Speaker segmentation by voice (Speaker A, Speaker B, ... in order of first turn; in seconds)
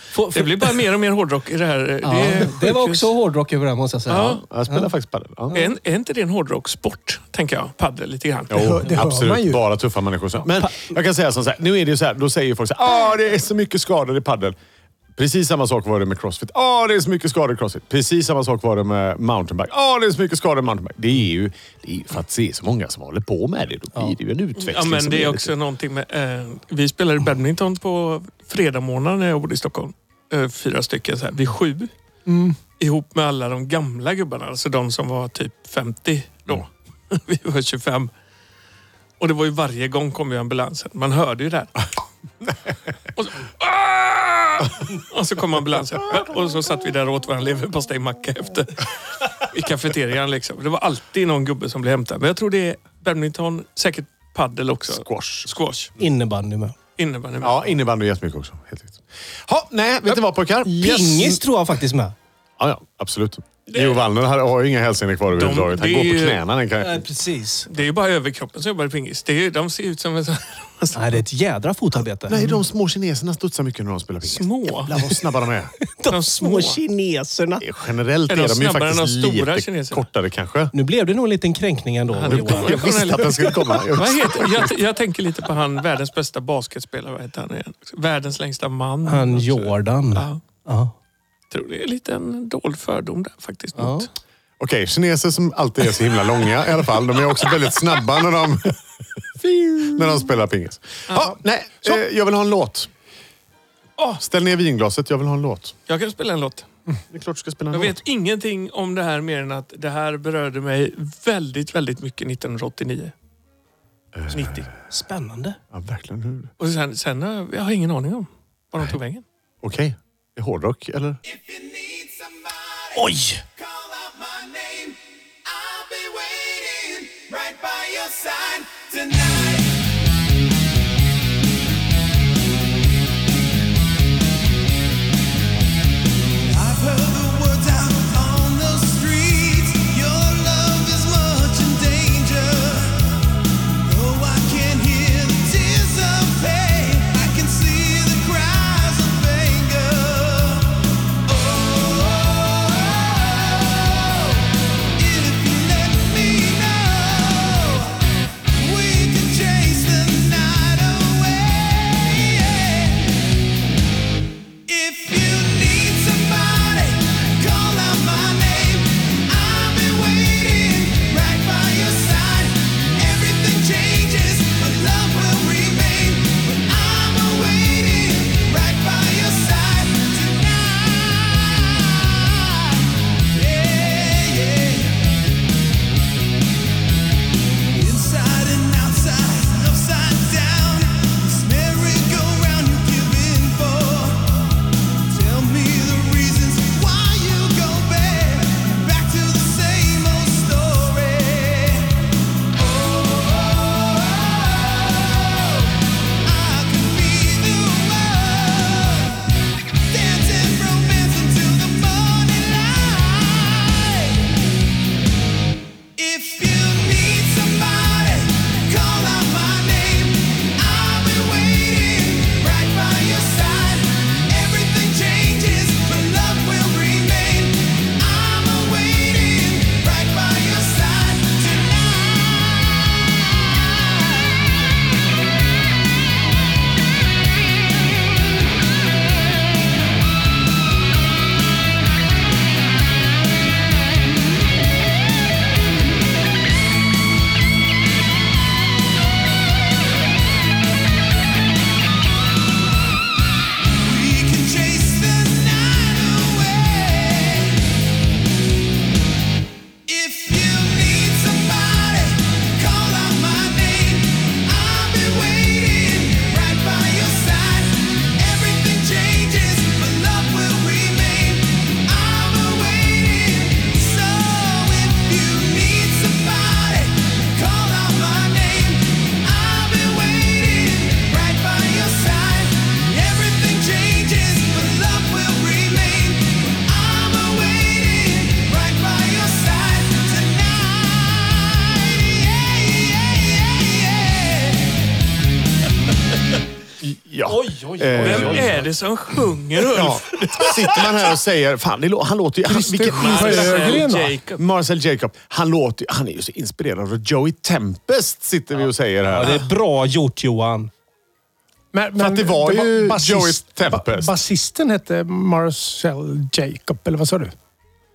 Speaker A: 0.1-0.8, 2.0-4.9, 5.5-5.7, 10.6-10.9, 56.0-56.8, 60.6-62.1, 66.8-67.7, 70.9-72.6, 75.9-77.6, 80.7-83.3, 89.0-90.9, 93.8-94.1, 114.9-115.6, 122.9-123.4, 297.2-298.7, 308.6-310.7
Speaker B: 0.3-3.1, 4.1-4.4, 5.5-8.6, 24.6-31.9, 32.8-38.1, 39.2-41.9, 43.1-55.9, 57.0-57.8, 63.7-64.0, 65.3-66.4, 67.7-71.2, 74.2-75.0, 76.1-76.8, 78.3-80.0, 82.1-90.4, 91.5-94.1, 101.1-101.3, 105.9-106.7, 107.7-113.1, 114.3-114.7, 116.6-119.2, 298.0-301.1, 302.9-304.4
Speaker C: 4.5-5.6, 8.5-14.6, 15.2-25.5, 54.9-55.5, 57.4-61.4, 62.6-67.0, 72.3-75.7, 77.6-80.7, 82.3-84.7, 94.6-98.8, 99.6-102.9, 104.2-105.7, 107.1-108.0, 114.1-114.7, 115.7-116.5, 119.6-121.2, 296.8-298.6, 299.7-309.4, 312.0-314.1
Speaker D: 8.5-9.6, 32.3-32.6, 302.4-304.1, 311.7-317.3
Speaker E: 121.2-130.1, 136.4-163.2, 164.7-185.1, 187.7-214.3, 215.9-232.8, 253.8-257.8, 259.9-294.9